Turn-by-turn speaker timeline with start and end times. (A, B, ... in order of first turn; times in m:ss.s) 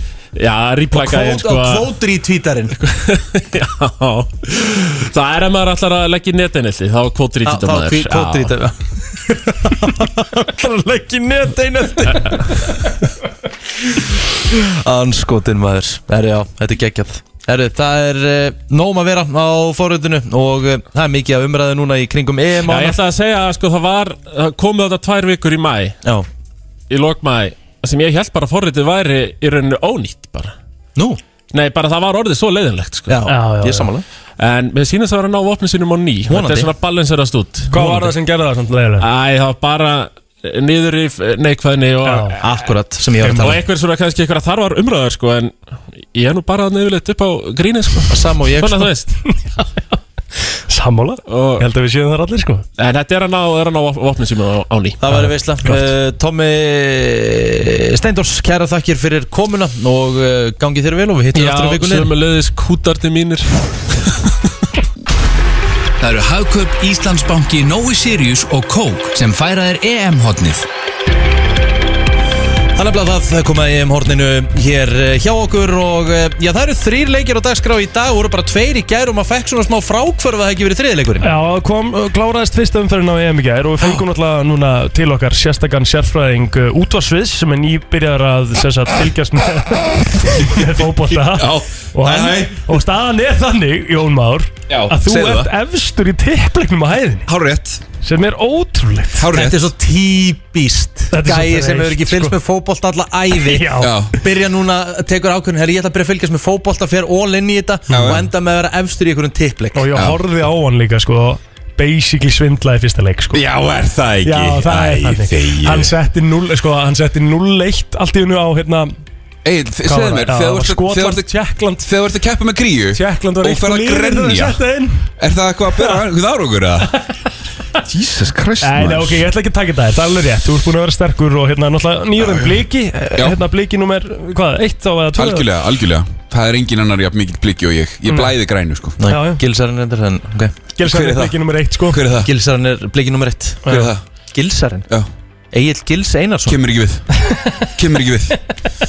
0:00.4-0:01.9 A
0:00.9-0:02.8 B
0:02.8-0:08.6 A
0:07.4-0:08.8 B
0:09.7-0:12.7 B
0:09.7-0:10.7 C
0:12.1-0:12.4 C
0:14.5-0:23.0 B
0:22.6-0:26.0 A
0:26.9-0:30.5 A
0:31.5-0:33.2 A
0:33.1-0:34.0 B
0:33.3-0:33.9 C
0:34.4-0:38.1 A
0:36.3-0:36.7 B
0:37.7-0:39.1 C
0:39.0-0:42.5 A
0:42.0-0:42.4 C
0:42.4-0:43.6 B
0:43.2-0:43.6 C
0:43.3-0:45.6 A
0:46.1-0:49.2 A
0:48.1-0:48.9 B
0:49.2-0:52.7 C
0:51.3-0:51.7 A
0:52.8-0:55.0 A
0:55.0-1:02.1 B
1:01.3-1:04.3 A
1:06.0-1:10.7 D
1:12.8-1:21.3 B
1:21.2-1:37.3 C
1:31.2-1:32.6 E
1:34.7-1:35.5 E
1:37.3-1:37.8 E
1:38.0-1:39.3 C
1:39.2-1:39.7 E
1:39.3-1:49.9 B
1:41.1-1:42.4 C
1:43.3-1:44.0 C
1:43.8-1:44.2 E
1:47.9-1:48.2 E
1:47.9-1:48.3 C
1:49.8-1:53.4 C
1:49.9-1:50.2 E
1:53.3-1:55.9 E
1:54.2-1:59.0 C
1:59.4-2:01.3 E
1:59.8-2:01.9 C
2:01.8-2:04.6 E
2:02.9-2:05.1 C
2:05.2-2:07.0 E
2:05.7-2:06.0 C
2:06.9-2:07.1 C
2:07.8-2:09.2 E
2:08.6-2:15.5 C
2:12.2-2:12.6 E
2:15.2-2:19.0 E
2:18.1-2:18.4 C
2:19.0-2:20.6 B
2:19.0-2:19.4 C
2:20.8-2:22.0 C
2:20.8-2:22.3 E
2:22.2-2:23.7 B
2:23.6-2:23.9 C
2:23.7-2:24.0 E
2:24.3-2:24.9 B
2:25.5-2:26.6 B
2:26.5-2:27.1 E
2:27.8-2:28.4 E